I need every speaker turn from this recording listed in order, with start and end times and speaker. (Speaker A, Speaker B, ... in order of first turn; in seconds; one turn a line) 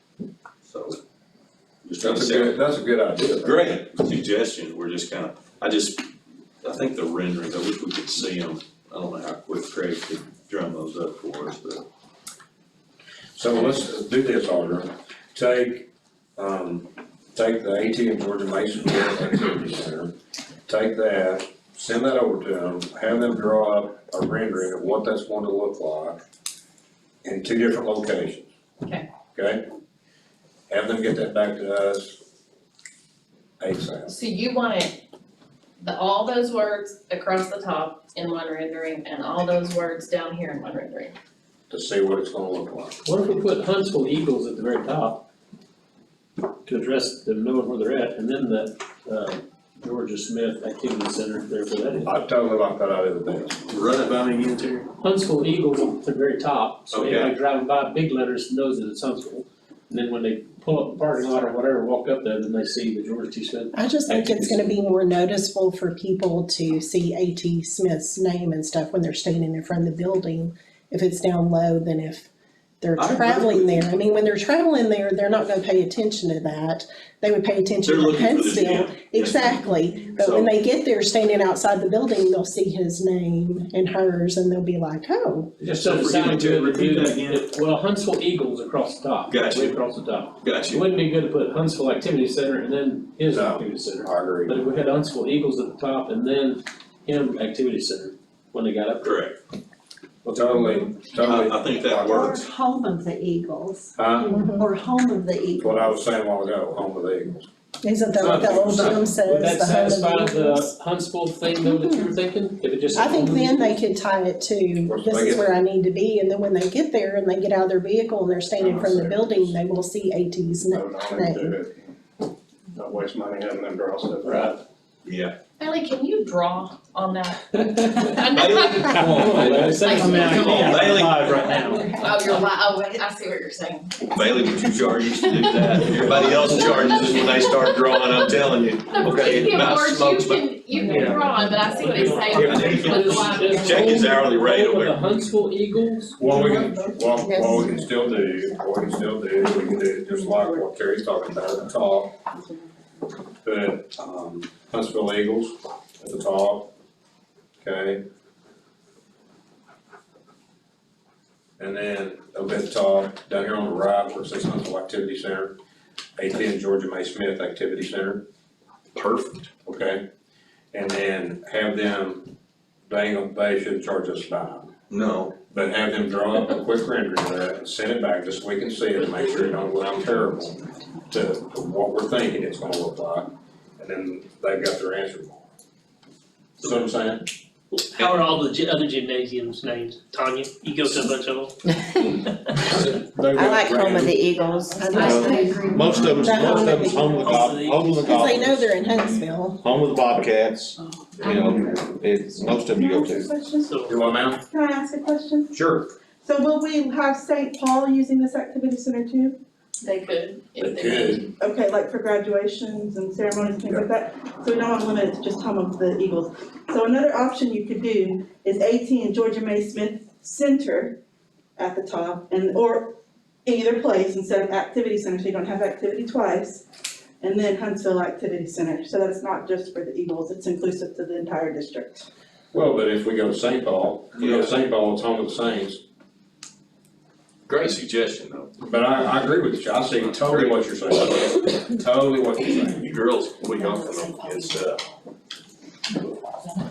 Speaker A: 0.7-1.0
Speaker A: 1.8-2.6
Speaker B: 2.0-3.7
Speaker A: 3.4-6.0
Speaker A: 6.6-11.8
Speaker B: 13.3-20.1
Speaker B: 20.7-26.2
Speaker B: 27.2-28.4
Speaker C: 28.8-29.1
Speaker B: 29.3-29.6
Speaker B: 30.7-32.2
Speaker B: 33.6-34.1
Speaker C: 34.0-35.0
Speaker C: 35.8-41.1
Speaker B: 41.7-43.0
Speaker D: 43.0-45.2
Speaker D: 46.6-52.1
Speaker B: 52.0-53.6
Speaker A: 53.7-54.9
Speaker D: 55.0-64.6
Speaker A: 56.9-57.3
Speaker E: 63.7-72.3
Speaker E: 72.8-85.5
Speaker A: 73.0-73.9
Speaker A: 77.8-80.5
Speaker A: 85.6-87.4
Speaker D: 85.7-99.1
Speaker A: 89.3-89.8
Speaker A: 90.4-90.8
Speaker B: 93.3-94.6
Speaker A: 99.0-99.4
Speaker B: 100.2-102.5
Speaker F: 100.8-106.0
Speaker A: 101.2-102.4
Speaker B: 103.9-104.4
Speaker E: 104.2-104.7
Speaker B: 105.6-107.5
Speaker E: 107.8-110.7
Speaker B: 108.1-109.1
Speaker D: 109.2-113.8
Speaker E: 111.6-112.1
Speaker E: 112.9-121.6
Speaker B: 114.8-115.5
Speaker G: 118.6-119.6
Speaker G: 120.7-121.9
Speaker G: 122.7-124.6
Speaker D: 124.2-124.5
Speaker A: 125.0-125.3
Speaker C: 125.6-129.2
Speaker D: 127.5-128.2
Speaker A: 128.3-131.6
Speaker D: 128.8-131.0
Speaker H: 129.0-129.8
Speaker C: 129.7-130.8
Speaker I: 129.9-131.8
Speaker E: 131.6-132.4
Speaker C: 131.8-134.3
Speaker A: 134.1-141.3
Speaker C: 135.4-138.3
Speaker H: 137.0-137.3
Speaker C: 138.8-143.9
Speaker H: 139.0-139.6
Speaker I: 140.9-141.2
Speaker D: 140.9-146.2
Speaker A: 141.9-145.0
Speaker H: 142.3-142.7
Speaker B: 146.2-152.2
Speaker J: 146.4-146.9
Speaker E: 147.2-148.0
Speaker J: 149.4-150.7
Speaker J: 152.3-153.1
Speaker B: 153.4-156.7
Speaker B: 157.6-158.0
Speaker B: 161.6-165.6
Speaker B: 166.2-168.2
Speaker A: 168.9-169.5
Speaker B: 169.6-170.0
Speaker B: 170.7-172.3
Speaker B: 172.9-174.7
Speaker A: 174.9-175.3
Speaker B: 175.4-185.4
Speaker B: 186.6-187.2
Speaker A: 188.0-188.2
Speaker D: 188.0-188.3
Speaker C: 188.0-188.4
Speaker I: 190.4-191.4
Speaker C: 190.8-191.1
Speaker B: 192.6-194.3
Speaker F: 193.3-196.9
Speaker E: 194.7-197.5
Speaker H: 194.9-203.3
Speaker D: 197.2-198.3
Speaker E: 198.0-199.6
Speaker B: 201.2-201.8
Speaker J: 202.5-205.6
Speaker B: 203.9-204.4
Speaker B: 205.6-205.8
Speaker J: 206.2-209.4
Speaker C: 209.8-211.2
Speaker B: 210.6-211.3
Speaker J: 211.3-221.0
Speaker J: 221.6-222.9
Speaker J: 223.4-226.7
Speaker J: 227.2-232.1
Speaker B: 232.5-235.8
Speaker A: 234.2-234.6
Speaker A: 237.5-238.5
Speaker B: 238.6-242.8
Speaker A: 240.0-241.5
Speaker A: 242.7-244.8
Speaker F: 244.0-244.3